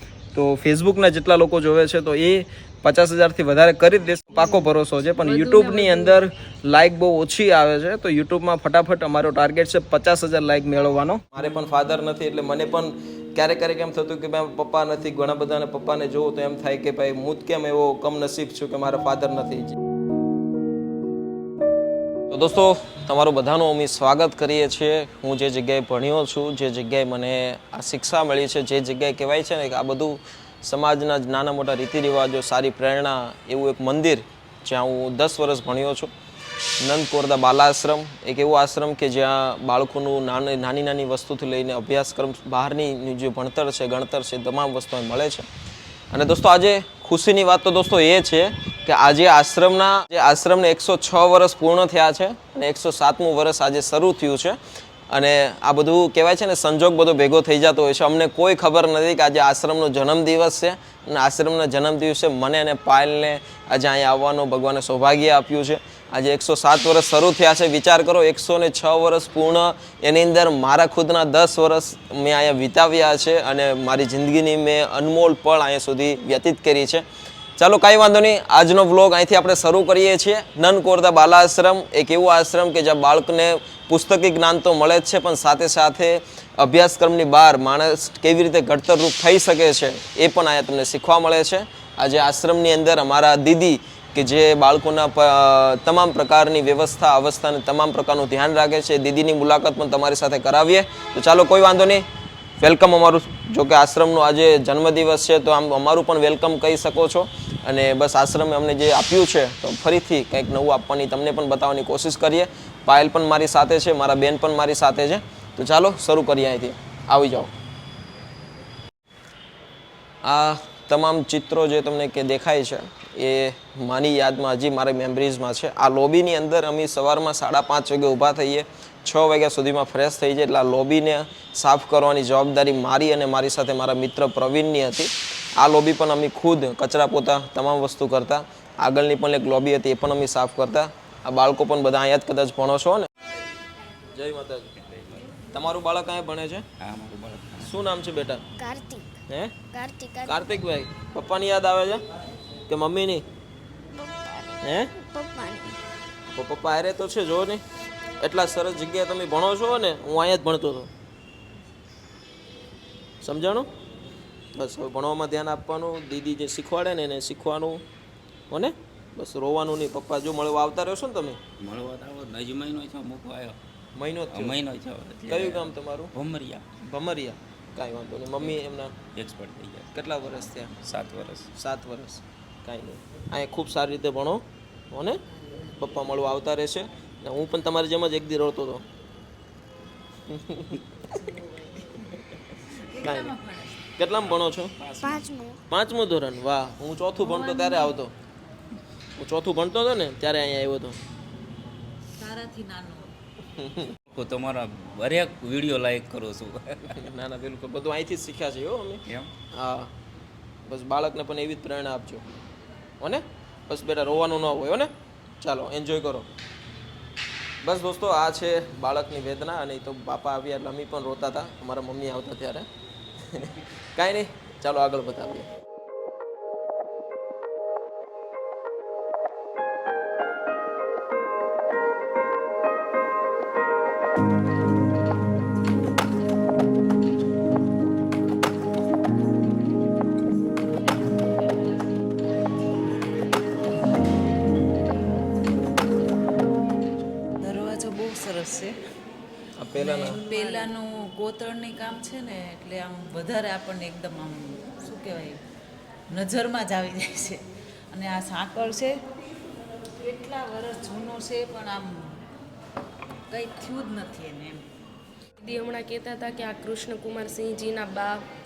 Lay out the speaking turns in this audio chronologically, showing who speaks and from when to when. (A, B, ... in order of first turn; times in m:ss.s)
0:00.3-0:19.8 A
0:04.4-0:04.7 B
0:05.2-0:06.2 B
0:22.3-0:36.1 A
0:36.8-0:45.5 A
0:46.1-0:54.6 A
0:55.1-1:17.0 A
1:17.6-1:42.0 A
1:42.6-1:57.5 A
2:00.2-2:23.1 A
2:24.1-2:24.7 A
2:24.8-2:25.3 C
2:25.5-2:26.6 A
2:26.8-2:27.7 C
2:27.6-2:28.4 A
2:28.6-2:29.1 D
2:29.3-2:29.6 A
2:29.7-2:30.6 D
2:30.2-2:32.0 A
2:32.7-2:33.2 A
2:34.1-2:35.8 D
2:34.6-2:34.9 A
2:36.3-2:37.6 A
2:38.2-2:40.9 A
2:43.2-2:43.7 A
2:44.6-2:47.8 A
2:48.5-2:51.4 A
2:51.6-2:53.6 C
2:54.0-2:54.6 A
2:54.3-2:56.7 C
2:55.3-2:56.1 A
2:56.8-2:59.0 A
2:59.2-3:00.0 C
2:59.9-3:00.7 A
3:00.8-3:01.5 C
3:01.5-3:05.2 A
3:05.8-3:08.8 A
3:10.3-3:11.1 A
3:12.7-3:13.9 E
3:13.0-3:13.4 A
3:14.0-3:14.8 A
3:14.3-3:15.3 C
3:15.0-3:15.6 D
3:15.7-3:18.1 A
3:17.3-3:17.8 E
3:19.2-3:21.0 A
3:22.2-3:23.1 E
3:23.6-3:24.0 A
3:24.1-3:27.1 C
3:27.0-3:29.0 A
3:29.5-3:29.9 A
3:30.7-3:32.2 A
3:33.0-3:36.3 A
3:37.6-3:42.7 A
3:43.2-3:45.5 A
4:07.4-4:08.8 E
4:09.6-4:10.2 A
4:09.8-4:15.4 E
4:16.1-4:19.0 E
4:19.9-4:22.2 E
4:23.3-4:24.7 E
4:25.4-4:28.2 B